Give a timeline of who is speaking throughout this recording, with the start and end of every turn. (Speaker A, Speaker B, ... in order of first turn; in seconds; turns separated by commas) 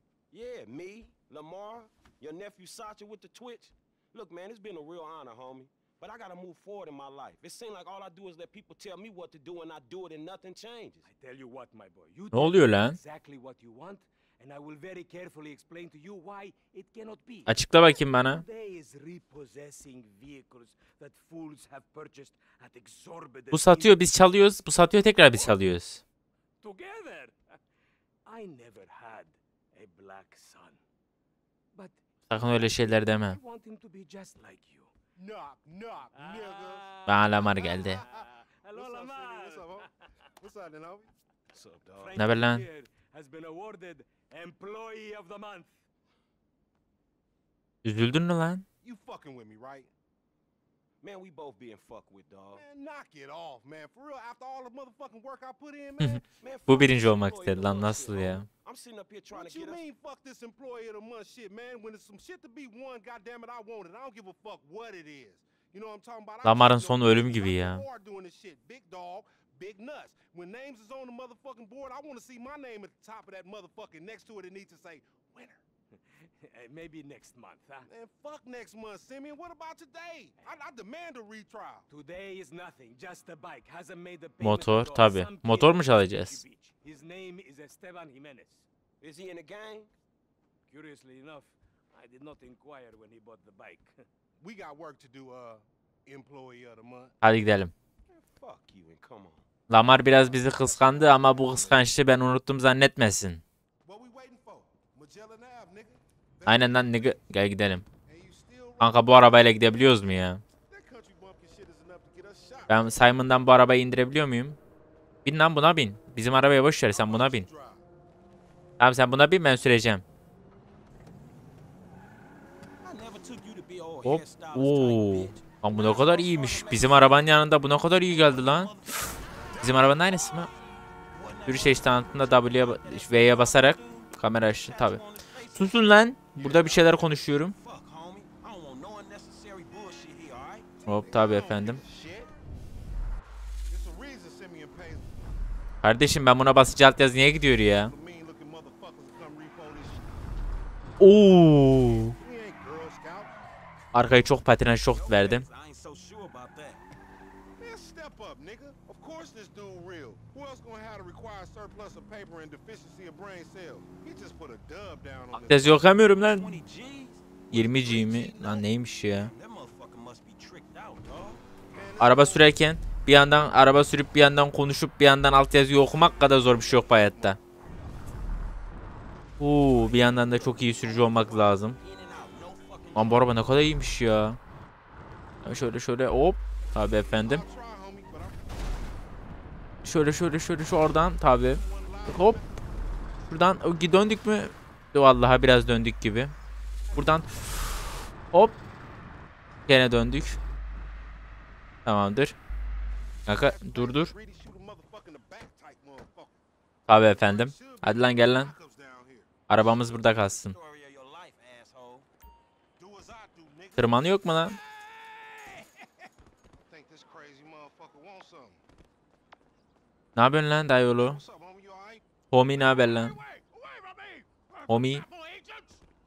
Speaker A: 0.3-11.1, Speaker B: 11.0-24.2, Speaker C: 12.3-13.0, Speaker C: 17.5-18.4, Speaker C: 23.5-26.0, Speaker B: 25.3-25.6, Speaker B: 26.6-27.6, Speaker B: 28.2-30.8, Speaker B: 31.7-34.9, Speaker C: 32.3-33.4, Speaker D: 35.1-36.9, Speaker B: 36.1-39.9, Speaker C: 37.1-38.0, Speaker D: 37.6-41.1, Speaker A: 41.5-42.2, Speaker B: 42.0-45.8, Speaker C: 42.1-42.6, Speaker C: 47.8-48.6, Speaker D: 48.8-49.9, Speaker A: 51.0-52.6, Speaker D: 52.5-56.2, Speaker C: 56.0-58.5, Speaker A: 56.4-59.8, Speaker D: 59.3-75.6, Speaker C: 66.4-67.8, Speaker B: 75.9-77.9, Speaker D: 77.8-81.9, Speaker B: 81.9-88.7, Speaker C: 84.4-86.4, Speaker A: 89.0-89.9, Speaker B: 90.7-94.0, Speaker D: 94.4-97.1, Speaker C: 97.2-97.7, Speaker A: 98.1-99.5, Speaker C: 99.7-103.4, Speaker A: 100.7-101.8, Speaker D: 103.8-107.2, Speaker C: 106.5-107.8, Speaker D: 108.1-113.0, Speaker C: 108.8-110.4, Speaker C: 112.7-114.6, Speaker C: 115.2-117.5, Speaker D: 116.9-117.8, Speaker C: 118.8-120.0, Speaker A: 122.8-127.4, Speaker C: 124.0-128.7, Speaker A: 128.1-129.7, Speaker C: 129.6-130.5, Speaker A: 131.1-140.7, Speaker C: 131.5-135.0, Speaker C: 135.6-137.6, Speaker D: 140.8-142.3, Speaker C: 140.8-141.8, Speaker D: 143.7-145.3, Speaker C: 145.8-147.9, Speaker D: 147.6-150.1, Speaker C: 151.0-152.2, Speaker D: 152.2-153.3, Speaker C: 153.9-155.4, Speaker A: 154.9-156.8, Speaker D: 157.6-165.9, Speaker C: 165.3-166.5, Speaker A: 166.1-171.4, Speaker C: 167.5-169.3, Speaker D: 171.7-172.6, Speaker C: 172.0-177.4, Speaker D: 175.8-177.4, Speaker C: 179.4-181.8, Speaker A: 180.0-183.6, Speaker C: 182.9-184.4, Speaker C: 185.4-187.4, Speaker D: 186.8-188.9, Speaker C: 189.8-192.4, Speaker D: 191.0-192.6, Speaker C: 193.3-196.3, Speaker D: 196.9-197.3, Speaker C: 196.9-197.7, Speaker C: 198.3-198.6, Speaker C: 199.7-200.4, Speaker C: 201.8-202.3, Speaker C: 203.3-204.1, Speaker D: 203.3-206.4, Speaker C: 206.9-208.5, Speaker D: 207.1-209.3, Speaker C: 209.5-210.5, Speaker A: 209.5-212.1, Speaker D: 212.8-214.2, Speaker C: 213.8-214.6, Speaker D: 214.8-215.7, Speaker D: 216.6-218.6, Speaker C: 220.1-221.2, Speaker D: 220.9-225.8, Speaker C: 222.3-223.2, Speaker C: 224.7-225.0